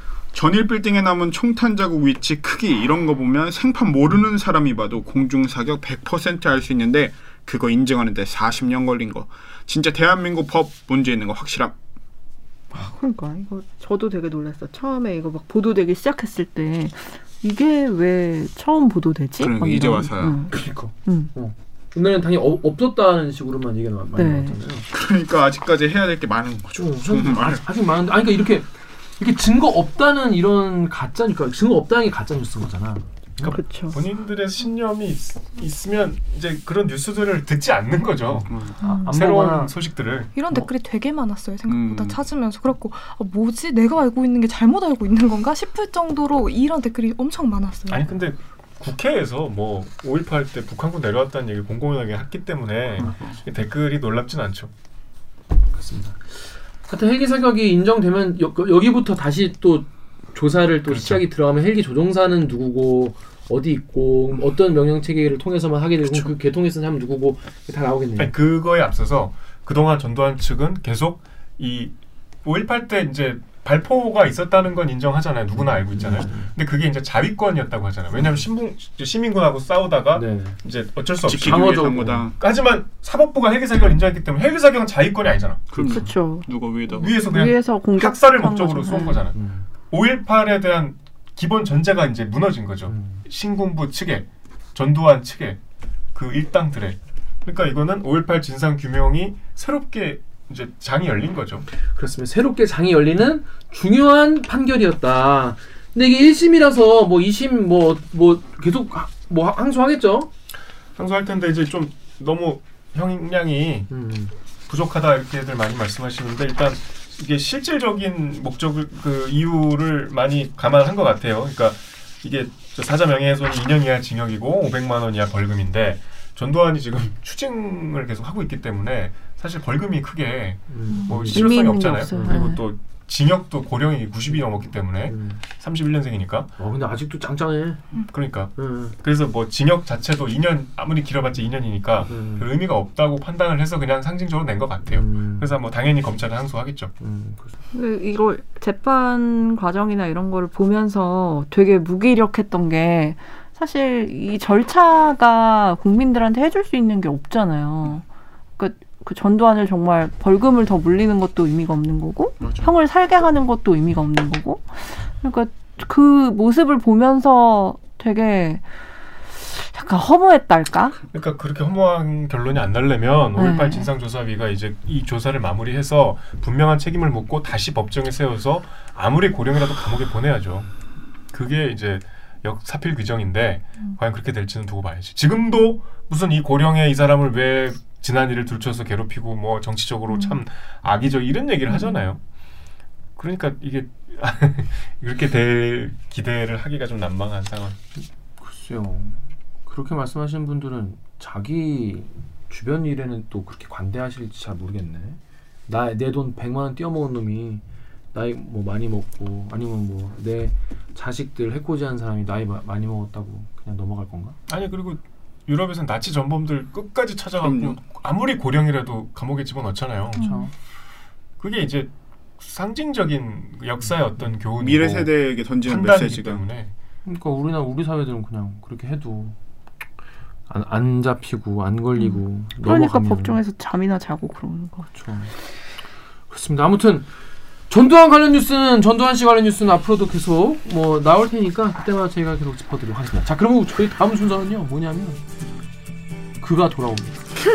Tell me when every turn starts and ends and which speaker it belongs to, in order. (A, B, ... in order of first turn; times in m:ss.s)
0:00.3-0:11.8 A
0:12.7-0:20.5 B
0:19.4-0:20.5 A
0:20.5-0:24.9 C
0:21.0-0:21.3 B
0:24.2-0:24.6 B
0:24.9-0:27.6 A
0:26.8-0:33.5 C
0:33.4-0:40.3 D
0:33.4-0:34.0 B
0:38.3-0:39.7 C
0:38.5-0:38.8 A
0:38.8-0:39.1 B
0:40.4-0:48.1 E
0:41.7-0:42.2 A
0:47.9-0:54.7 D
0:55.7-1:08.3 C
1:00.9-1:01.2 D
1:08.2-1:11.9 D
1:12.4-1:21.8 D
1:15.9-1:16.5 C
1:20.1-1:20.6 C
1:21.3-1:22.4 A
1:21.4-1:22.3 C
1:22.4-1:25.8 D
1:25.7-1:27.2 A
1:25.8-1:26.5 B
1:26.9-1:29.4 D
1:27.0-1:29.2 B
1:29.3-1:29.7 C
1:29.9-1:35.6 D
1:32.9-1:33.3 C
1:36.1-1:41.7 D
1:41.9-1:50.3 C
1:51.0-1:53.9 D
1:53.9-1:54.3 C
1:54.7-2:16.5 D
2:10.7-2:11.5 C
2:10.9-2:12.6 B
2:12.1-2:12.4 C
2:15.1-2:15.4 C
2:16.6-2:17.8 C
2:18.1-2:26.9 D
2:18.6-2:19.0 C
2:22.1-2:22.5 C
2:24.8-2:25.5 C
2:27.0-2:27.5 C
2:27.7-2:38.0 B
2:38.6-2:48.6 B
2:42.4-2:42.7 A
2:49.4-2:51.0 B
2:51.1-3:00.7 D
2:53.4-2:53.9 B
3:01.3-3:12.2 D
3:13.2-3:17.8 D
3:18.0-3:27.6 C
3:28.1-3:34.4 C
3:34.5-3:40.3 D
3:37.4-3:37.8 A
3:40.2-3:40.5 B
3:40.2-3:40.5 C
3:41.4-3:46.7 D
3:44.6-3:46.4 A
3:47.0-3:49.4 C
3:50.5-3:53.4 C
3:52.0-3:54.9 B
3:54.9-3:55.3 C
3:56.3-3:57.1 C
3:57.7-4:05.2 C
4:06.4-4:07.2 C